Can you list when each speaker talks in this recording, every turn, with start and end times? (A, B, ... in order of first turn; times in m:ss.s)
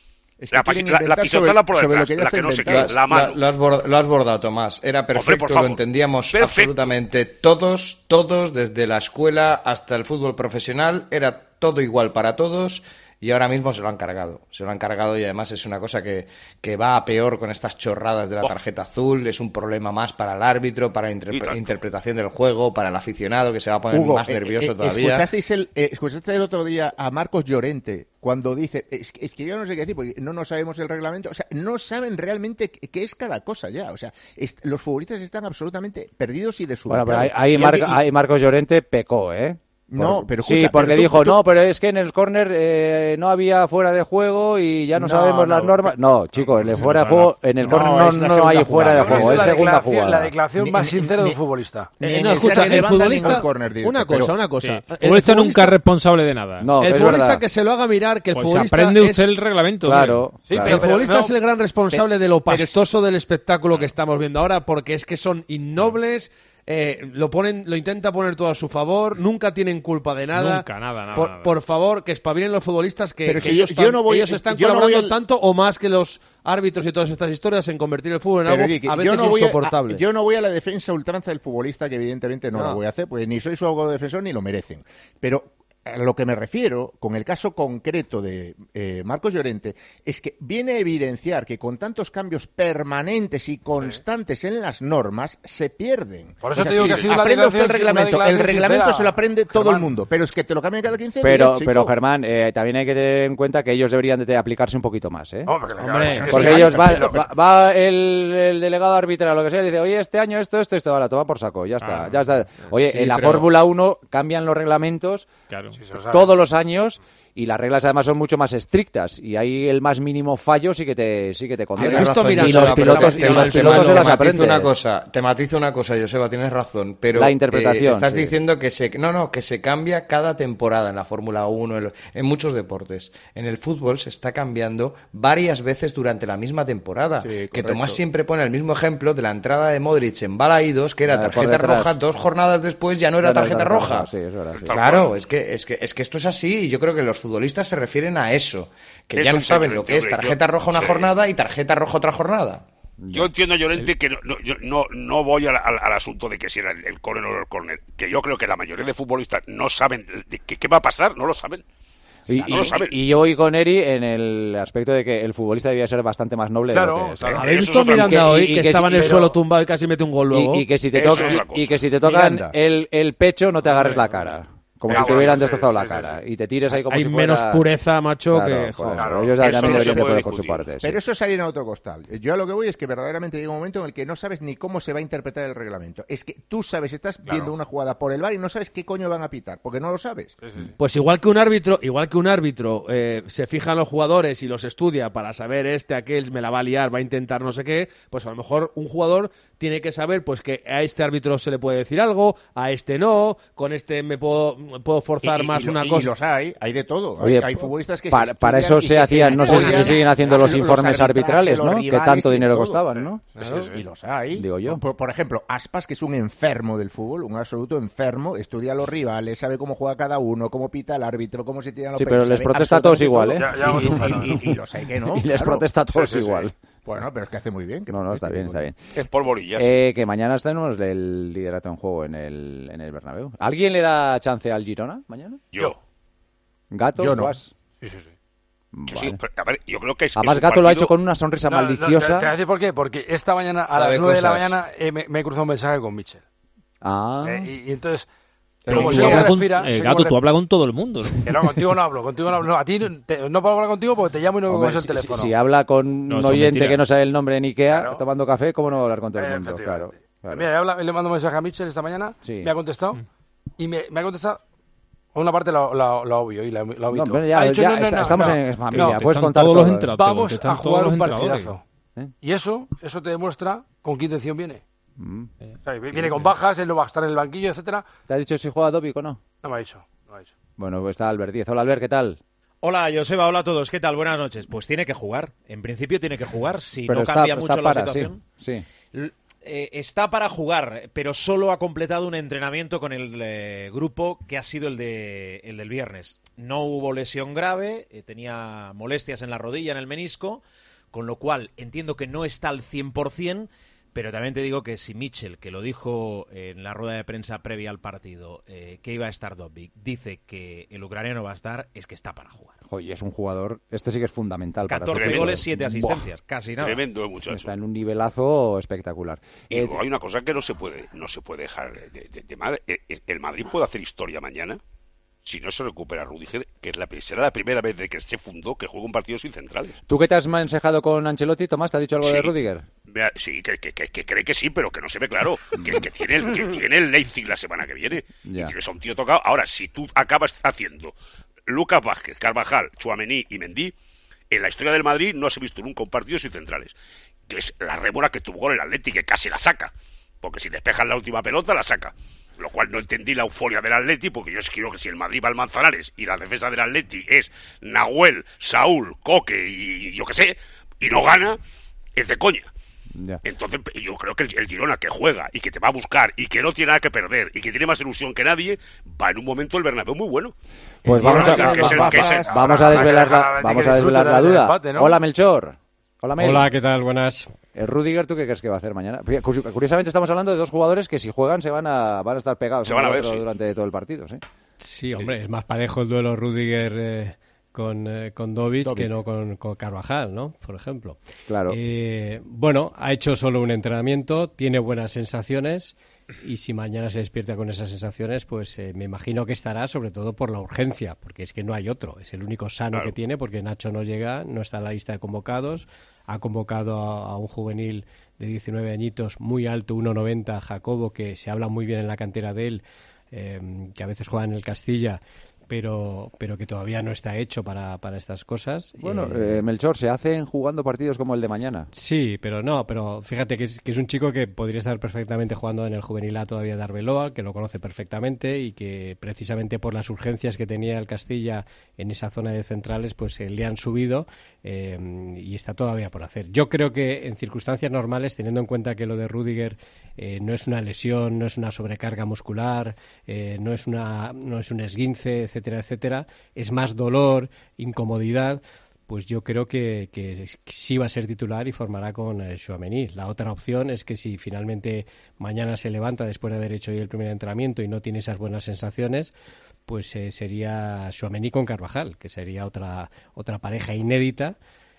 0:00.4-0:03.0 A
0:00.5-0:03.4 B
0:02.6-0:25.3 C
0:05.1-0:06.9 B
0:21.3-0:21.8 B
0:23.9-0:38.0 A
0:36.9-0:50.3 D
0:39.9-0:41.4 A
0:44.9-0:45.9 A
0:46.4-0:47.4 E
0:47.6-0:49.7 A
0:48.9-0:51.9 F
0:50.6-0:51.4 A
0:52.0-0:54.3 A
0:52.0-0:55.8 G
0:54.6-0:56.7 E
0:56.6-0:57.4 D
0:56.8-0:59.2 G
0:58.3-1:00.2 E
0:59.8-1:00.8 D
1:00.5-1:01.4 F
1:00.6-1:20.0 G
1:01.9-1:02.8 A
1:10.3-1:11.6 E
1:13.2-1:15.1 A
1:18.4-1:41.9 A
1:22.5-1:22.8 G
1:36.4-1:39.9 F
1:41.2-1:45.5 D
1:45.5-1:47.2 F
1:45.8-1:47.2 A
1:46.1-1:55.3 D
1:51.8-1:52.1 E
1:55.5-1:55.8 E
1:55.8-1:56.3 F
1:55.9-2:04.7 D
2:01.8-2:04.2 G
2:01.9-2:24.1 C
2:07.1-2:08.3 D
2:17.2-2:18.0 A
2:21.0-2:22.0 D
2:23.2-2:24.7 D
2:24.5-2:25.2 B
2:24.7-2:32.6 C
2:29.1-2:31.1 B
2:33.0-2:33.9 D
2:33.1-2:41.6 B
2:42.3-2:49.3 D
2:42.3-2:42.9 B
2:46.7-2:47.4 F
2:47.3-2:50.7 G
2:47.4-2:48.3 B
2:48.9-2:49.4 F
2:50.3-2:57.6 D
2:50.9-2:51.8 B
2:52.0-2:52.5 A
2:53.7-2:54.1 F
2:54.9-2:56.1 F
2:54.9-2:55.4 G
2:56.8-2:59.7 G
2:58.3-3:01.0 D
2:59.0-2:59.3 F
2:59.4-3:00.7 B
2:59.6-3:00.1 A
3:00.8-3:10.3 A
3:10.4-3:10.7 F
3:10.8-3:26.1 G
3:25.2-3:45.6 A
3:27.2-3:33.6 D
3:29.5-3:29.8 F
3:33.4-3:33.8 F
3:34.3-3:34.8 D
3:41.9-3:46.5 D
3:43.3-3:44.4 F
3:46.0-3:46.2 F
3:46.8-3:48.6 A
3:47.9-3:48.9 D
3:48.9-3:49.8 B
3:49.6-3:55.4 D
3:56.7-3:57.5 D
3:57.0-3:57.4 A
3:57.8-3:58.1 F
3:58.7-3:59.2 D
3:58.9-4:00.9 B
4:00.2-4:02.3 D
4:01.5-4:06.2 F
4:03.7-4:04.6 C
4:06.8-4:07.5 D
4:07.2-4:08.1 F
4:08.6-4:09.4 D
4:08.6-4:10.2 F
4:08.7-4:11.3 E
4:11.2-4:15.3 F
4:14.5-4:20.5 D
4:16.1-4:16.8 E
4:17.7-4:18.0 F
4:19.2-4:23.0 F
4:22.2-4:22.5 D
4:23.6-4:24.4 F
4:25.1-4:28.4 F
4:26.9-4:29.9 D
4:28.7-4:31.5 E
4:30.0-4:31.6 F
4:32.2-4:34.6 F
4:35.0-4:35.3 D
4:35.6-4:37.8 F
4:35.9-4:36.2 D
4:38.1-4:39.2 D
4:39.4-4:40.3 F
4:40.6-4:42.2 D
4:42.6-4:48.2 H
4:46.8-4:48.6 D
4:48.9-5:12.6 H
5:12.7-5:16.1 D
5:14.7-5:16.8 H
5:14.9-5:15.4 B
5:16.6-5:17.5 B
5:17.3-5:19.8 D
5:19.5-5:24.6 B
5:25.2-5:29.8 B
5:29.9-5:32.6 D
5:32.0-5:32.3 B
5:32.9-5:40.9 B
5:38.2-5:38.5 D
5:41.5-5:43.7 B
5:44.3-5:46.7 B
5:47.3-6:01.4 B
6:02.0-6:02.5 B
6:02.9-6:03.2 D
6:03.2-6:10.3 B
6:10.8-6:12.8 A
6:10.8-6:16.5 D
6:10.9-6:12.7 B
6:12.4-6:15.0 F
6:16.2-6:17.3 I
6:17.5-6:24.2 D
6:22.6-6:23.2 B
6:24.6-6:59.4 I
6:31.3-6:31.6 D
6:58.8-7:01.7 D
7:01.7-7:39.1 I
7:39.7-7:44.4 I